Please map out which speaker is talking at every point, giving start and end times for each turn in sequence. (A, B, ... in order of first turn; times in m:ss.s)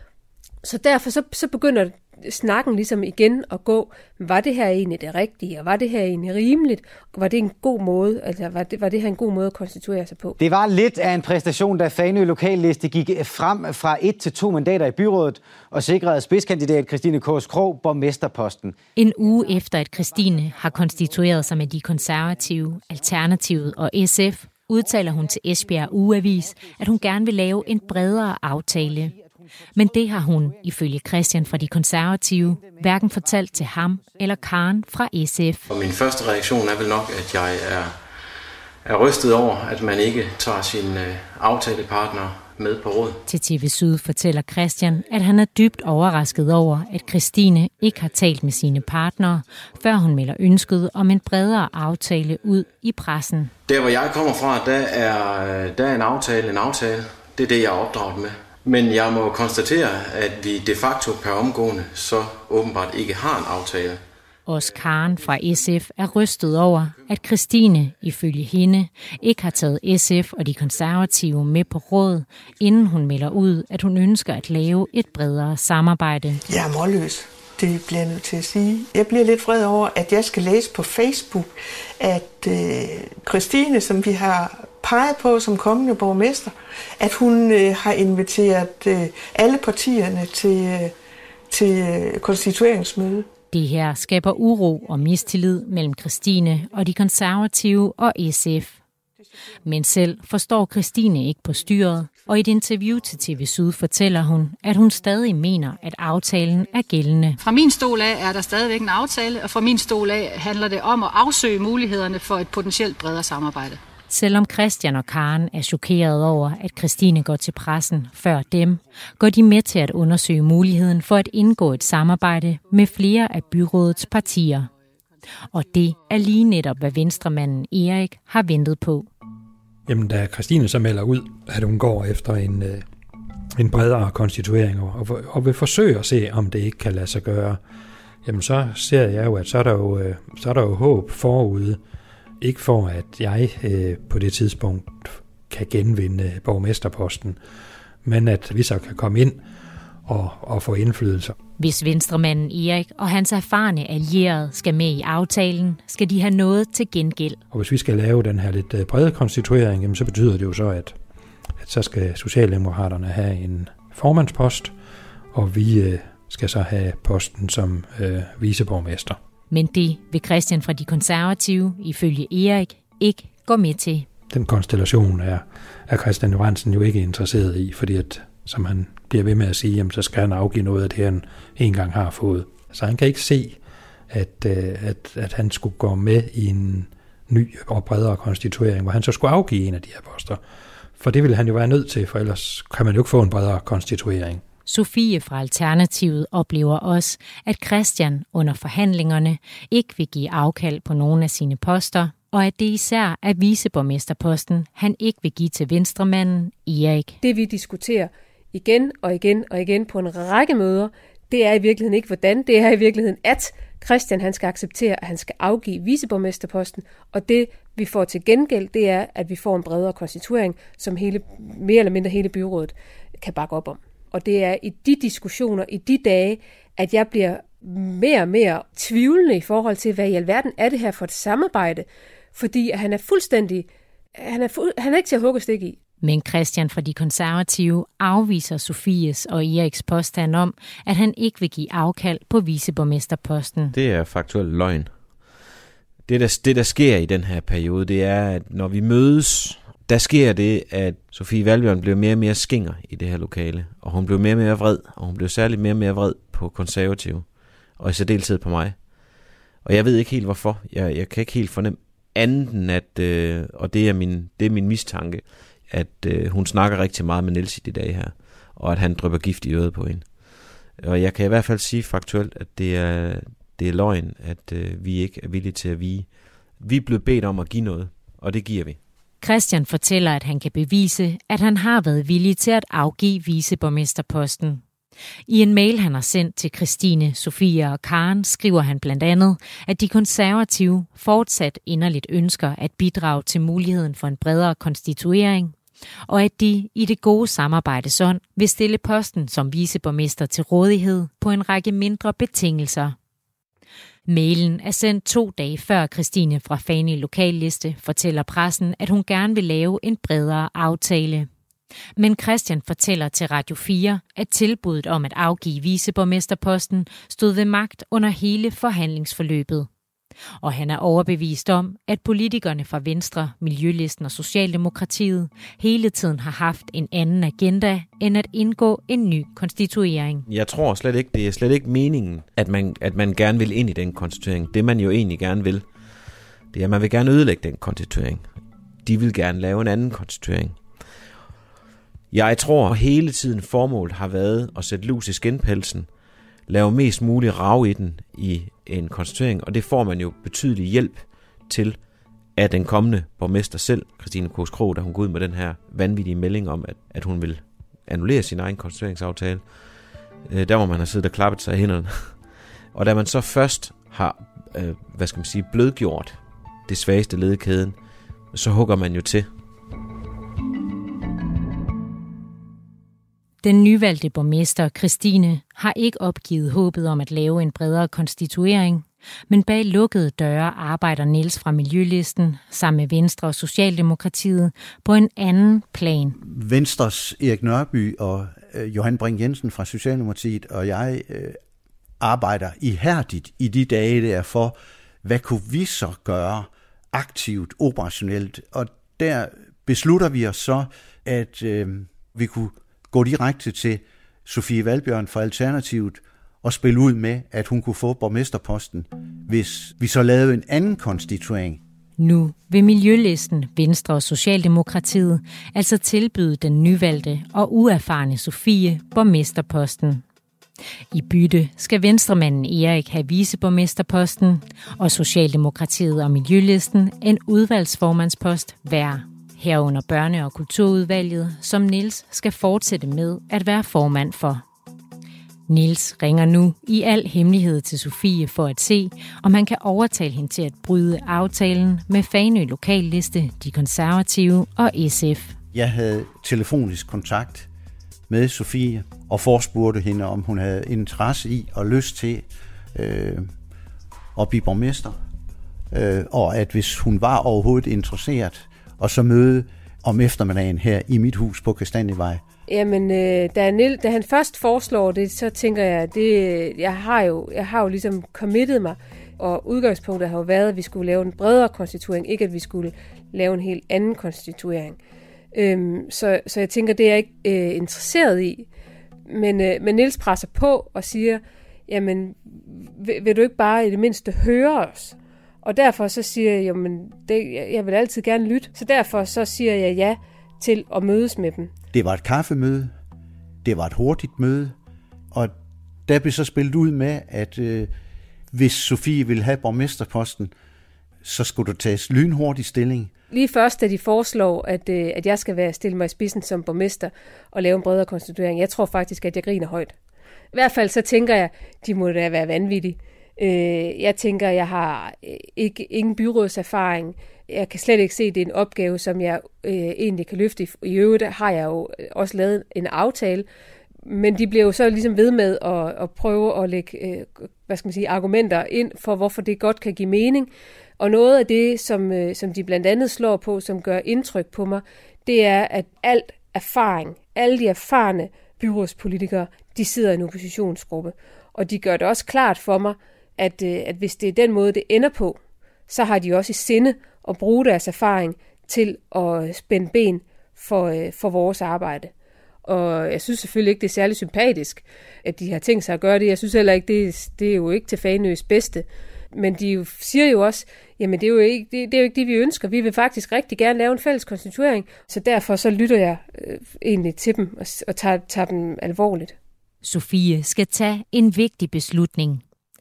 0:00.6-0:10.4 A
0:10.4-0:18.8 B
0:19.0-0:29.1 C
0:29.7-0:35.6 C
0:35.7-0:37.9 D
0:38.8-0:43.2 D
0:43.3-0:53.5 C
0:53.7-1:04.0 D
1:04.4-1:16.4 C
1:16.5-1:30.9 E
1:31.5-1:33.3 E
1:33.5-1:38.8 C
1:39.6-1:47.4 C
1:47.4-1:53.8 F
1:54.1-2:04.7 C
2:05.5-2:09.1 C
2:09.9-2:12.8 G
2:13.5-2:17.6 G
2:18.2-2:21.8 G
2:22.4-2:27.4 G
2:28.0-2:29.4 G
2:30.0-2:31.3 G
2:31.6-2:37.4 C
2:37.5-2:41.0 G
2:41.6-2:44.7 G
2:45.3-2:49.2 G
2:49.5-2:54.1 C
2:54.3-3:03.6 G
3:04.1-3:10.4 G
3:11.0-3:14.4 G
3:14.7-3:27.2 C
3:27.2-3:55.8 A
3:56.0-4:03.7 C
4:03.7-4:04.9 H
4:06.1-4:17.2 H
4:17.8-4:18.8 H
4:19.6-4:30.1 H
4:30.8-4:36.1 H
4:36.6-4:38.8 H
4:39.2-4:44.6 C
4:45.3-4:55.5 C
4:56.1-5:03.0 C
5:04.1-5:11.3 C
5:12.0-5:19.7 C
5:20.4-5:30.2 C
5:30.3-5:35.6 H
5:36.5-5:38.2 H
5:38.8-5:40.6 H
5:42.1-5:45.9 H
5:46.5-5:51.8 H
5:52.4-5:59.5 H
6:00.3-6:02.2 H
6:02.7-6:07.8 H
6:08.3-6:09.3 H
6:13.4-6:26.2 C
6:26.2-6:31.4 I
6:32.0-6:51.6 I
6:52.0-7:00.0 C
7:00.9-7:14.4 C
7:15.5-7:25.4 C
7:25.5-7:27.5 I
7:28.1-7:33.3 I
7:34.2-7:35.0 I
7:35.7-7:42.2 I
7:42.5-7:54.8 A
7:55.3-7:58.5 A
7:59.1-8:11.5 A
8:11.7-8:12.7 I
8:13.4-8:14.6 I
8:15.9-8:17.7 I
8:18.3-8:20.3 I
8:21.0-8:22.9 I
8:23.1-8:29.7 A
8:30.3-8:43.2 A
8:43.8-9:05.2 A
9:05.7-9:11.9 A
9:12.4-9:29.1 A
9:29.6-9:32.2 C